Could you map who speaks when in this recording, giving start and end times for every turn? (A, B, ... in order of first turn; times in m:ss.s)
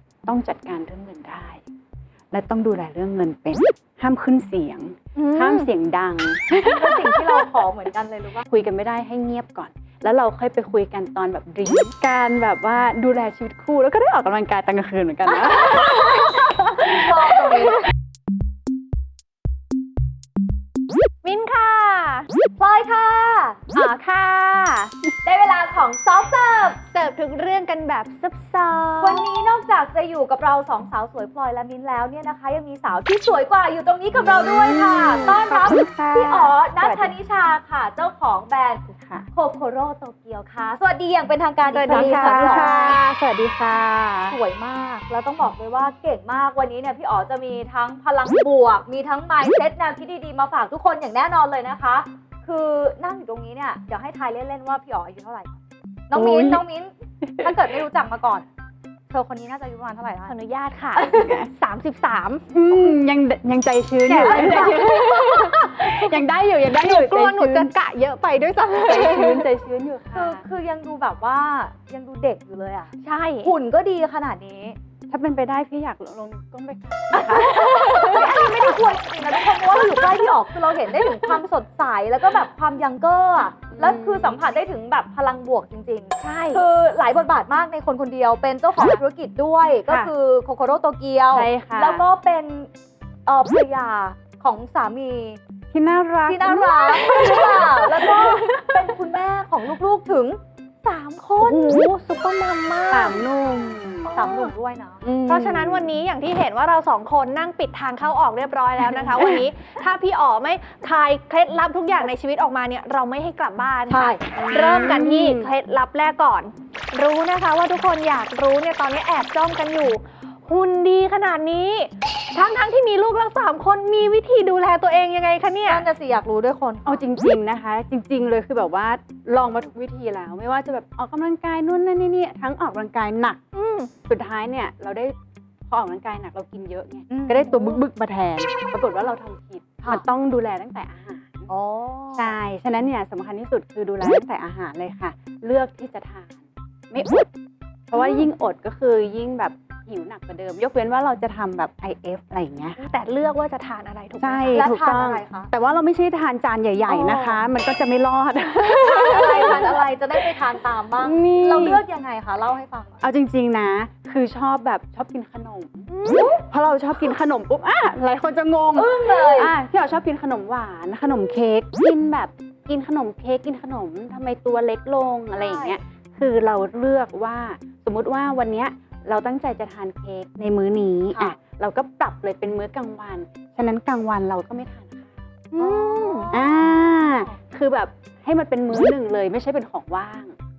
0:00.2-0:01.6 A
0:02.3-0:07.5 A
0:05.2-0:05.7 B
0:06.6-0:08.4 C
0:08.5-0:17.6 A
0:16.8-0:17.8 C
0:21.2-0:22.3 B
0:22.6-0:23.6 C
0:23.7-0:24.9 B
0:25.2-0:26.8 C
0:26.9-0:29.2 B
0:29.0-0:43.0 C
0:34.1-0:37.1 A
0:38.9-0:39.3 A
0:41.7-0:43.2 B
0:41.8-0:44.3 A
0:44.3-0:55.6 C
0:56.1-0:58.4 C
0:56.1-0:56.6 A
0:57.2-0:57.5 A
0:59.1-1:00.3 C
1:00.2-1:02.4 B
1:01.0-1:01.4 C
1:01.2-1:01.5 A
1:02.5-1:07.7 A
1:04.0-1:06.2 B
1:06.7-1:09.5 B
1:08.7-1:10.4 A
1:10.1-1:14.8 C
1:13.0-1:13.5 B
1:15.1-1:18.3 A
1:17.2-1:32.7 C
1:17.6-1:18.3 B
1:23.7-1:24.4 A
1:26.2-1:26.7 B
1:31.3-1:32.0 A
1:33.2-1:35.4 C
1:35.7-1:38.8 A
1:36.2-1:41.5 C
1:41.4-1:43.3 B
1:42.9-1:44.4 A
1:44.1-1:45.0 C
1:45.0-1:45.9 A
1:45.2-2:05.9 B
1:49.2-1:49.4 A
1:53.9-1:54.2 C
1:54.3-1:55.5 A
2:05.7-2:07.0 C
2:06.8-2:13.4 A
2:13.5-2:13.9 B
2:14.0-2:15.2 A
2:15.7-2:21.5 A
2:17.1-2:17.8 C
2:21.5-2:22.4 C
2:22.1-2:27.3 A
2:27.9-2:32.8 A
2:32.8-2:34.6 B
2:34.2-2:40.4 A
2:34.5-2:35.5 C
2:36.9-2:37.4 C
2:38.8-2:39.5 B
2:38.9-2:43.0 C
2:41.0-2:41.8 A
2:43.0-3:05.3 A
2:45.9-2:46.4 B
2:48.7-2:49.5 C
2:55.3-2:55.8 C
3:01.1-3:01.4 C
3:05.5-3:06.3 B
3:05.6-3:07.3 C
3:06.3-3:10.3 A